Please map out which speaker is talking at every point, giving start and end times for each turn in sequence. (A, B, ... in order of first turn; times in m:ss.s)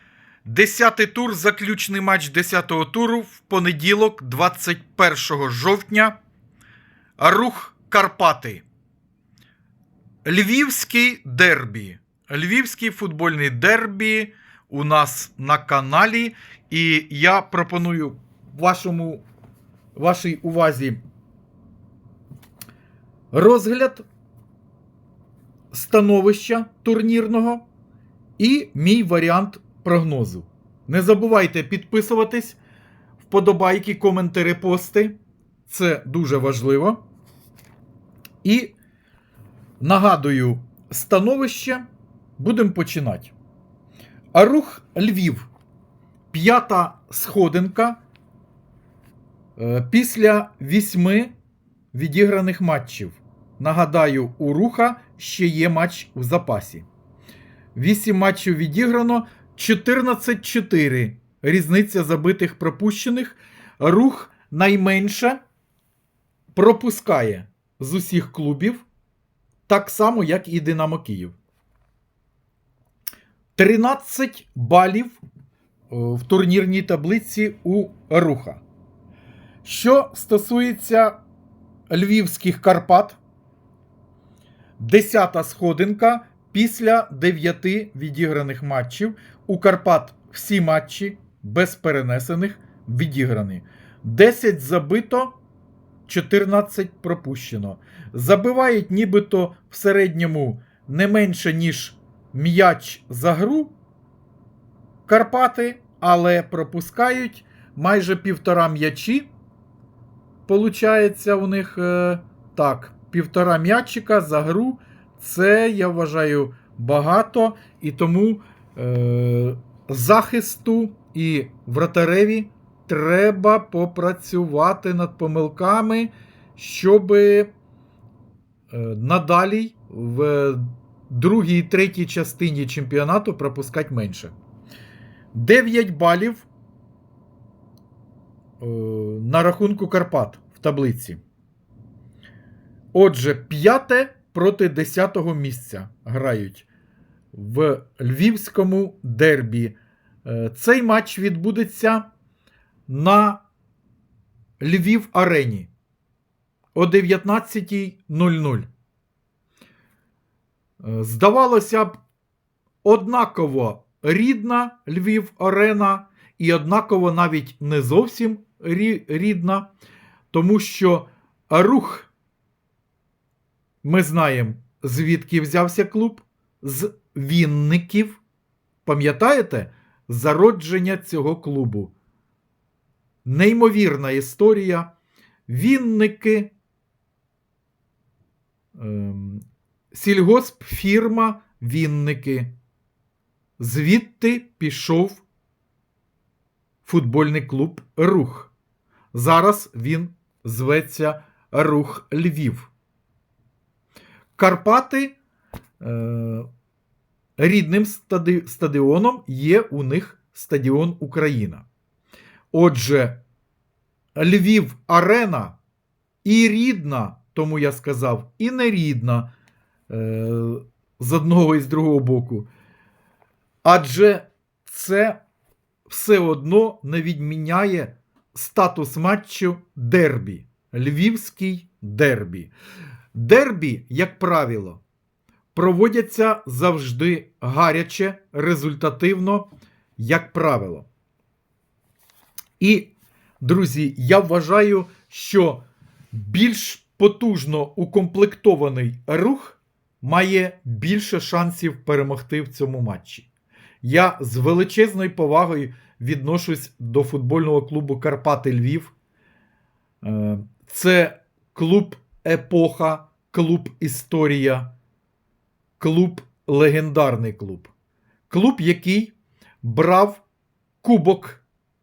0:00.4-0:06.2 A
0:07.2-0:08.6 A
0:10.2-0:19.2 A
0:19.9-0:21.0 A
0:23.3-0:24.0 A
0:25.7-0:27.6 A
0:28.4-0:32.6 A
0:33.2-0:35.2 A
0:35.7-0:37.0 A
0:38.4-0:38.8 A
0:39.8-0:41.8 A
0:42.4-0:43.3 A
0:44.3-0:45.5 A
0:46.3-0:48.0 A
0:49.6-0:51.3 A
0:51.9-0:56.9 A
0:57.7-1:05.4 A
1:06.5-1:08.8 A
1:09.7-1:11.3 A
1:13.6-1:15.2 A
1:15.9-1:18.6 A
1:19.6-1:21.2 A
1:21.9-1:23.2 A
1:24.8-1:35.4 A
1:36.1-1:43.7 A
1:45.1-1:49.3 A
1:50.5-2:07.5 A
2:08.7-2:14.4 A
2:15.3-2:16.5 A
2:18.6-2:21.2 A
2:22.9-2:26.7 A
2:27.3-2:32.1 A
2:32.9-2:33.4 A
2:34.6-2:35.7 A
2:36.7-2:38.7 A
2:40.8-2:42.0 A
2:42.8-2:49.7 A
2:50.3-2:52.1 A
2:53.8-2:58.2 A
2:58.8-3:01.9 A
3:03.2-3:04.9 A
3:05.5-3:06.5 A
3:08.8-3:12.5 A
3:13.6-3:15.2 A
3:16.8-3:18.5 A
3:19.1-3:22.7 A
3:24.4-3:25.2 A
3:25.8-3:26.5 A
3:27.4-3:31.6 A
3:32.5-3:33.2 A
3:34.2-3:35.6 A
3:36.2-3:39.3 A
3:39.9-3:42.5 A
3:43.6-3:45.2 A
3:45.9-3:52.5 A
3:53.1-3:54.8 A
3:55.5-4:00.9 A
4:02.6-4:13.3 A
4:13.8-4:18.9 A
4:20.0-4:24.7 A
4:25.8-4:27.7 A
4:28.3-4:30.2 A
4:30.8-4:31.4 A